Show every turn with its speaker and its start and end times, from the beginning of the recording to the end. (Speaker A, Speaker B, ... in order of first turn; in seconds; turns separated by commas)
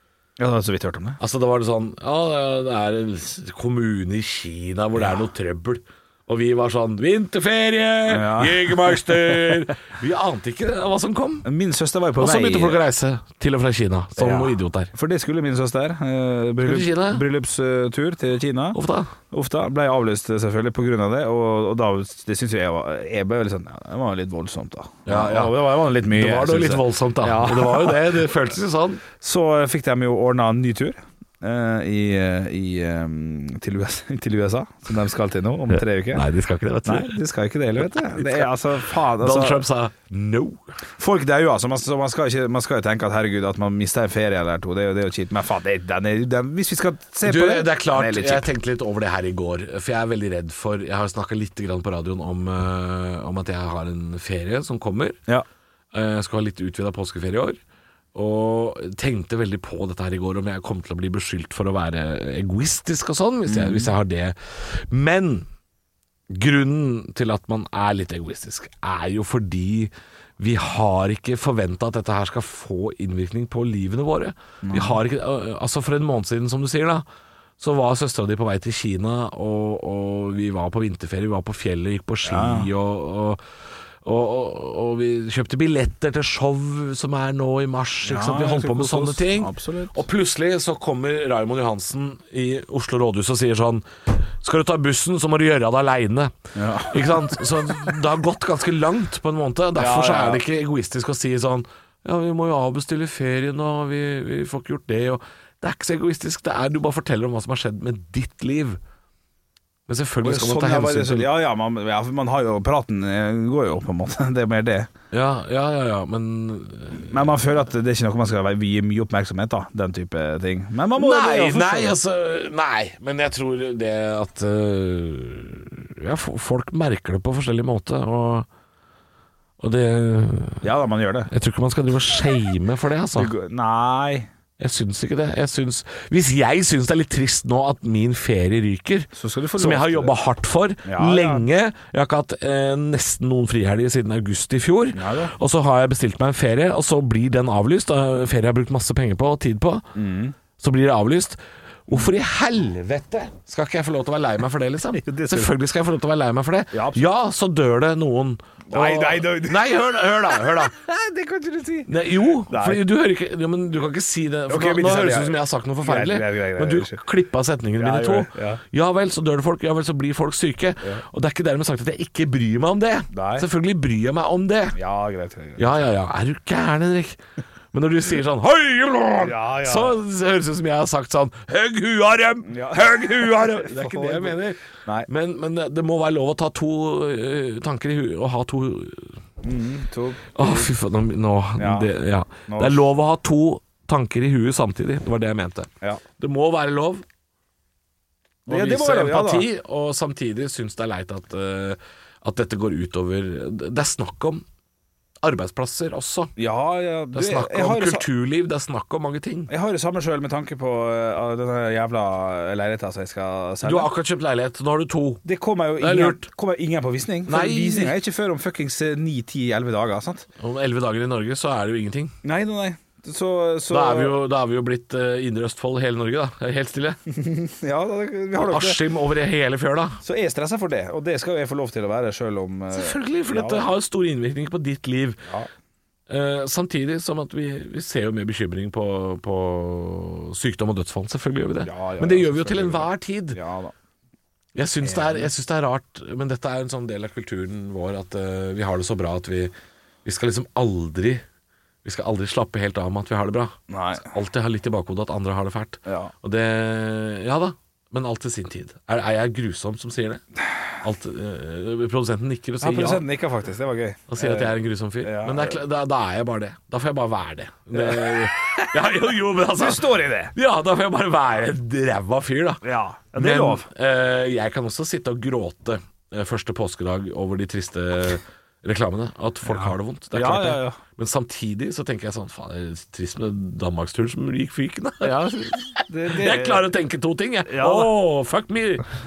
Speaker A: 0.4-1.2, Speaker B: 1.2-11.5, Speaker A: 8.1-9.2, Speaker A: 11.4-12.8, Speaker B: 12.2-14.9, Speaker A: 14.2-18.8, Speaker B: 16.6-17.2, Speaker B: 18.7-19.1, Speaker A: 19.3-28.2, Speaker B: 25.1-29.0, Speaker A: 29.2-36.2, Speaker B: 36.1-37.2, Speaker A: 36.9-39.6, Speaker B: 37.9-38.5, Speaker B: 39.1-40.7, Speaker A: 41.0-48.5, Speaker B: 47.2-55.2, Speaker B: 55.9-57.6, Speaker B: 58.1-65.5, Speaker A: 63.5-63.9, Speaker B: 66.3-77.0, Speaker A: 74.6-75.0, Speaker B: 77.6-83.4, Speaker A: 82.2-82.7, Speaker B: 84.0-96.3, Speaker A: 88.0-90.0, Speaker A: 96.5-97.5, Speaker B: 96.8-108.8, Speaker A: 99.8-100.4, Speaker B: 109.9-111.3, Speaker A: 110.2-114.9, Speaker B: 115.1-117.3, Speaker A: 117.0-122.0, Speaker B: 121.0-128.5, Speaker B: 129.6-130.6, Speaker A: 130.6-131.3, Speaker B: 131.3-133.3, Speaker A: 133.2-134.3, Speaker B: 134.6-149.9, Speaker A: 139.2-140.1, Speaker A: 140.8-141.4, Speaker A: 144.9-145.3, Speaker A: 149.9-150.3, Speaker B: 150.6-160.7, Speaker A: 154.9-155.5, Speaker A: 156.7-157.0, Speaker A: 158.7-159.7, Speaker A: 160.4-162.8, Speaker B: 161.9-174.8, Speaker A: 164.5-167.0, Speaker A: 167.8-168.6, Speaker A: 173.1-173.5, Speaker A: 174.7-175.6, Speaker B: 175.6-177.2, Speaker B: 177.7-189.2, Speaker A: 179.2-180.0, Speaker A: 182.4-185.1, Speaker A: 189.4-190.7, Speaker B: 190.3-197.0, Speaker A: 191.6-191.9, Speaker A: 192.5-192.8, Speaker A: 198.5-199.5, Speaker B: 198.5-204.4, Speaker B: 205.2-206.3, Speaker A: 206.4-208.1, Speaker B: 207.1-209.5, Speaker A: 209.5-213.9, Speaker B: 213.6-215.2, Speaker A: 215.2-220.2, Speaker B: 215.8-216.3, Speaker B: 217.3-217.9, Speaker B: 220.4-222.1, Speaker A: 222.2-224.2, Speaker B: 223.7-227.0, Speaker A: 227.1-228.8, Speaker B: 228.4-230.0, Speaker A: 230.0-233.7, Speaker B: 232.7-235.2, Speaker B: 236.1-243.4, Speaker A: 241.6-243.7, Speaker B: 244.6-249.5, Speaker A: 244.8-245.3, Speaker B: 250.1-251.2, Speaker B: 251.8-260.2, Speaker A: 253.7-254.1, Speaker A: 255.9-256.1, Speaker B: 260.8-263.1, Speaker A: 262.6-265.6, Speaker B: 264.1-272.6, Speaker A: 267.7-268.8, Speaker A: 269.5-270.3, Speaker A: 272.6-273.7, Speaker B: 273.1-288.9, Speaker A: 279.5-280.8, Speaker A: 285.0-286.7, Speaker A: 287.5-288.0